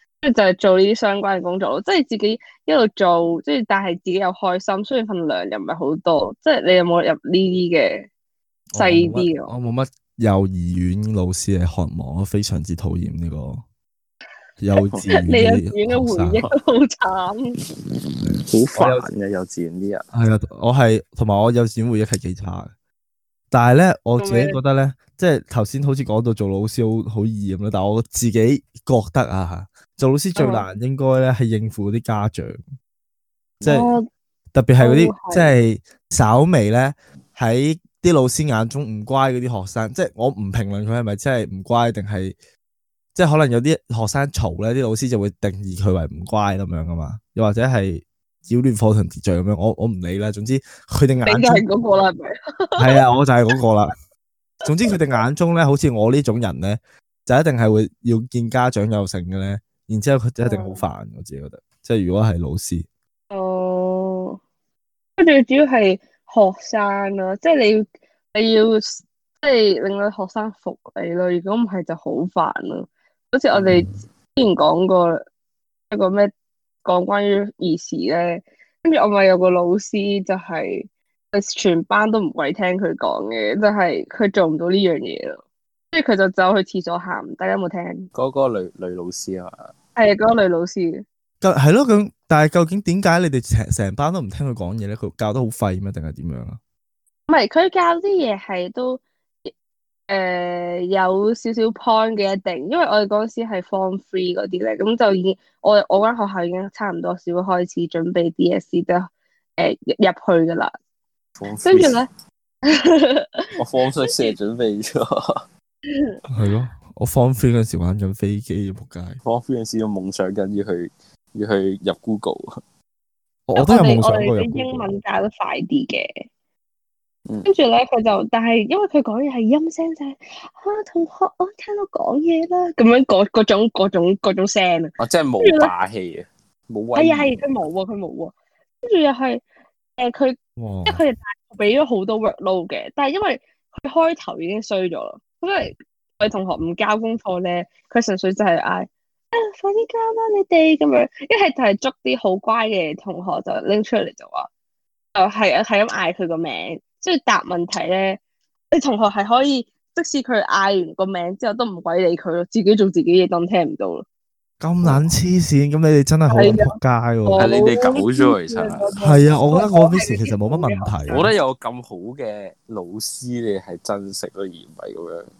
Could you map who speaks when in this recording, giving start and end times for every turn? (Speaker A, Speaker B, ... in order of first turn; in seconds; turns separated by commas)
Speaker A: 0.2-8.1, Speaker B: 8.7-13.6, Speaker A: 8.8-9.5, Speaker B: 14.6-16.4, Speaker A: 15.1-17.6, Speaker B: 18.2-19.1, Speaker C: 18.5-20.0, Speaker B: 20.1-22.7, Speaker B: 23.5-32.6, Speaker A: 24.2-24.6, Speaker A: 30.4-30.6, Speaker B: 33.6-33.9, Speaker A: 33.6-34.0, Speaker B: 34.5-42.3, Speaker A: 34.8-35.5, Speaker B: 43.1-51.6, Speaker A: 51.2-53.0, Speaker B: 52.8-53.9, Speaker B: 54.6-62.9, Speaker A: 60.4-60.8, Speaker A: 63.3-64.4, Speaker A: 65.2-75.2, Speaker A: 75.9-76.3, Speaker A: 76.8-85.4, Speaker A: 85.9-88.1, Speaker C: 88.1-89.7, Speaker A: 90.0-91.0, Speaker B: 91.4-96.6, Speaker A: 97.3-99.5, Speaker A: 100.1-110.7, Speaker C: 111.4-112.0, Speaker A: 111.6-112.1, Speaker A: 112.6-113.5, Speaker C: 113.6-115.4, Speaker A: 114.0-114.3, Speaker A: 115.9-116.2, Speaker B: 116.3-119.2, Speaker C: 119.2-122.5, Speaker B: 123.5-124.9, Speaker A: 123.5-126.2, Speaker A: 127.4-135.7, Speaker C: 135.0-137.4, Speaker A: 136.9-139.4, Speaker A: 140.0-154.5, Speaker B: 140.6-141.0, Speaker A: 155.1-158.2, Speaker A: 158.7-164.0, Speaker B: 164.6-167.6, Speaker A: 166.3-171.3, Speaker C: 167.4-168.9, Speaker B: 168.9-171.3, Speaker C: 171.1-175.3